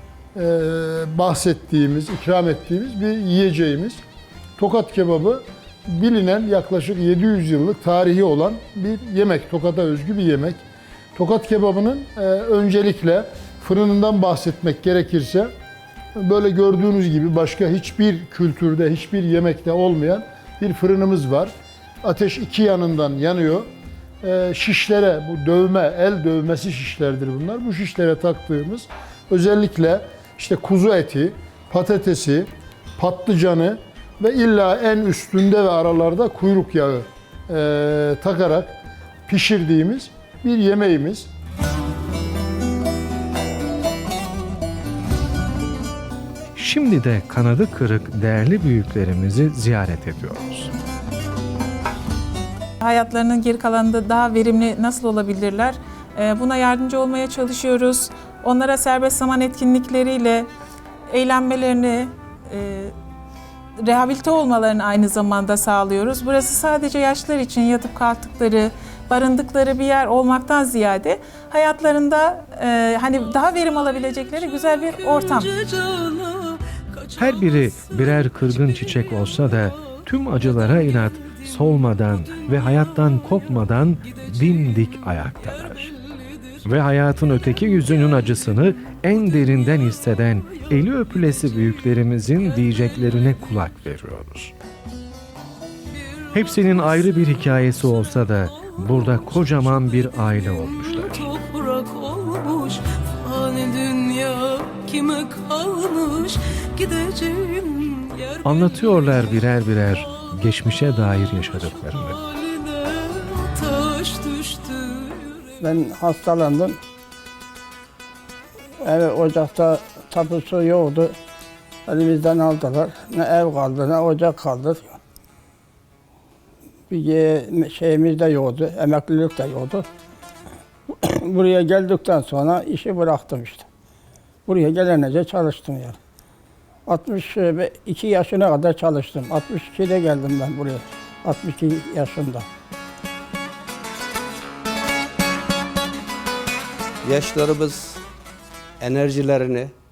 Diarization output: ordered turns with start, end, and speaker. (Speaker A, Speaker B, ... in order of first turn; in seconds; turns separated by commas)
Speaker A: 0.3-4.0, Speaker A: 4.6-10.6, Speaker A: 11.1-15.5, Speaker A: 16.2-23.7, Speaker A: 24.2-41.3, Speaker B: 46.5-50.7, Speaker C: 52.8-60.5, Speaker C: 61.1-62.9, Speaker C: 63.8-75.5, Speaker D: 75.1-78.9, Speaker B: 77.2-85.9, Speaker B: 86.6-94.5, Speaker B: 96.3-101.3, Speaker D: 96.5-96.9, Speaker D: 98.7-99.4, Speaker D: 100.8-109.0, Speaker B: 108.4-112.2, Speaker D: 111.6-115.5, Speaker E: 115.6-116.8, Speaker E: 118.8-121.2, Speaker E: 121.9-125.0, Speaker E: 126.9-129.8, Speaker E: 131.0-133.7, Speaker E: 134.4-136.0, Speaker E: 136.9-142.5, Speaker F: 147.0-148.0, Speaker F: 148.8-149.7